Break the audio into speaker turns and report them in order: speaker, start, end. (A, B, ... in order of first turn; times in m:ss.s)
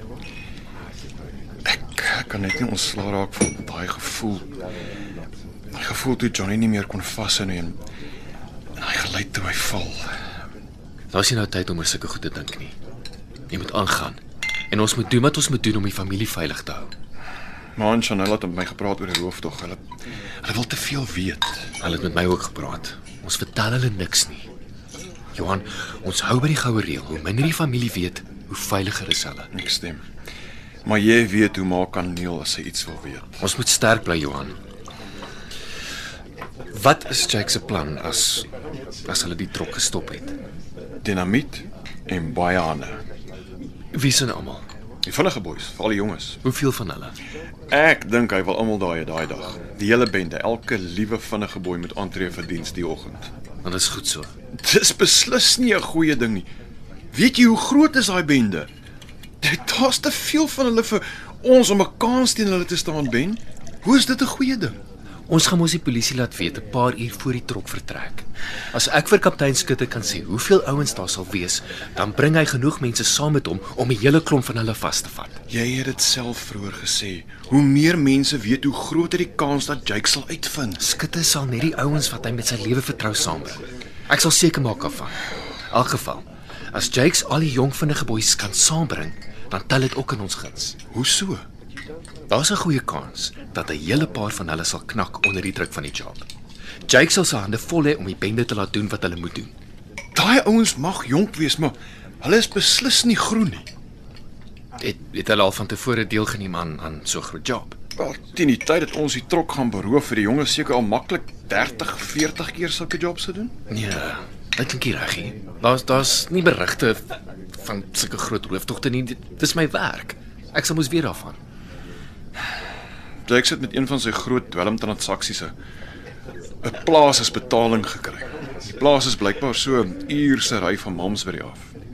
0:01.7-0:04.5 A
0:05.8-0:07.8 A
0:08.8-0:10.1 A
0:11.1-0:12.7 B
0:13.5-0:14.2 B
0:14.7-0:16.9 B
0:17.8-0:19.8 A
0:20.4-0:21.7 A
0:21.8-0:24.5 B
0:25.4-0:29.5 B
0:29.5-0:30.0 A
0:30.9-0:33.4 A
0:33.4-0:34.6 B
0:36.7-0:38.5 B
0:39.1-0:40.4 B
0:41.0-0:43.0 A
0:43.9-0:44.6 B
0:45.1-0:46.4 A
0:46.4-0:47.2 B
0:47.7-0:53.3 A
0:53.6-0:54.3 B
0:54.6-0:56.5 A
0:57.1-0:58.7 A
0:59.4-1:04.8 A
1:05.3-1:15.4 B
1:15.5-1:20.8 A
1:20.8-1:25.2 B
1:25.7-1:30.8 B
1:30.9-1:31.4 A
1:32.3-1:36.3 B
1:36.9-1:39.5 B
1:40.2-1:43.7 A
1:44.8-1:47.8 B
1:48.0-1:53.5 A
1:53.7-1:57.0 B
1:57.6-2:01.4 B
2:03.3-2:05.5 A
2:06.6-2:11.7 A